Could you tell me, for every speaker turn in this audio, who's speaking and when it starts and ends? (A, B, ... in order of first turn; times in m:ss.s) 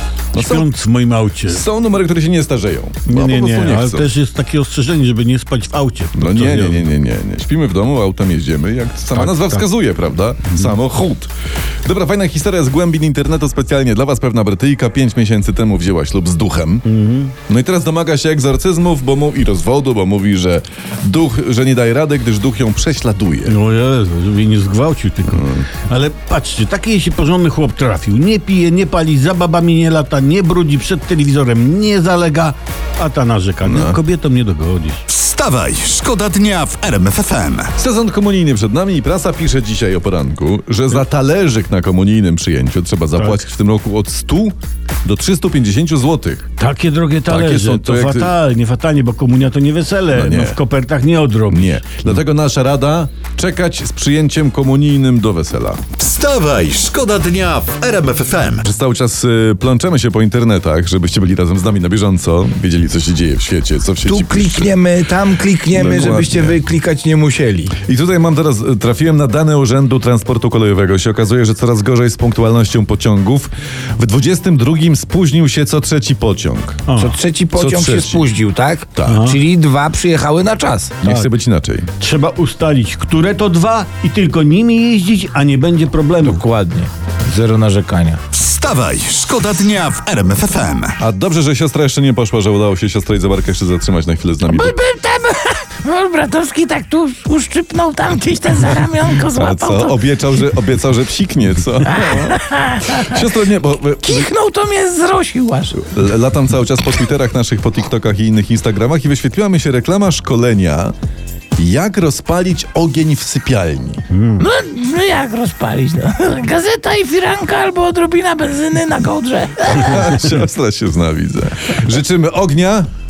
0:00.3-0:00.7 A
0:00.3-0:01.6 B
0:01.4-0:04.1 A
0:03.0-0:06.9 B
0:06.1-0:11.3 A
0:09.1-0:09.6 B
0:11.8-0:16.8 A
0:16.8-0:17.3 B
0:17.5-0:23.6 A
0:23.4-0:35.0 B
0:25.3-0:25.6 A
0:33.6-0:34.0 A
0:35.1-0:37.7 C
0:37.8-0:46.5 A
0:46.6-0:51.8 B
0:47.3-0:48.3 A
0:50.1-0:50.6 A
0:51.5-0:55.8 A
0:56.0-0:58.6 C
0:58.6-1:04.7 A
1:04.0-1:07.8 D
1:05.7-1:06.6 A
1:07.8-1:16.8 A
1:16.9-1:17.2 B
1:17.0-1:21.0 D
1:17.5-1:18.3 A
1:19.0-1:19.4 B
1:21.0-1:21.9 A
1:22.0-1:26.4 B
1:26.2-1:28.2 D
1:28.3-1:31.0 C
1:31.0-1:34.8 A
1:34.5-1:40.0 E
1:39.3-1:44.3 A
1:41.9-1:43.2 E
1:44.0-1:45.8 E
1:45.7-1:50.9 A
1:51.6-1:54.0 A
1:54.1-1:54.4 B
1:54.4-2:00.3 E
1:59.8-2:02.9 A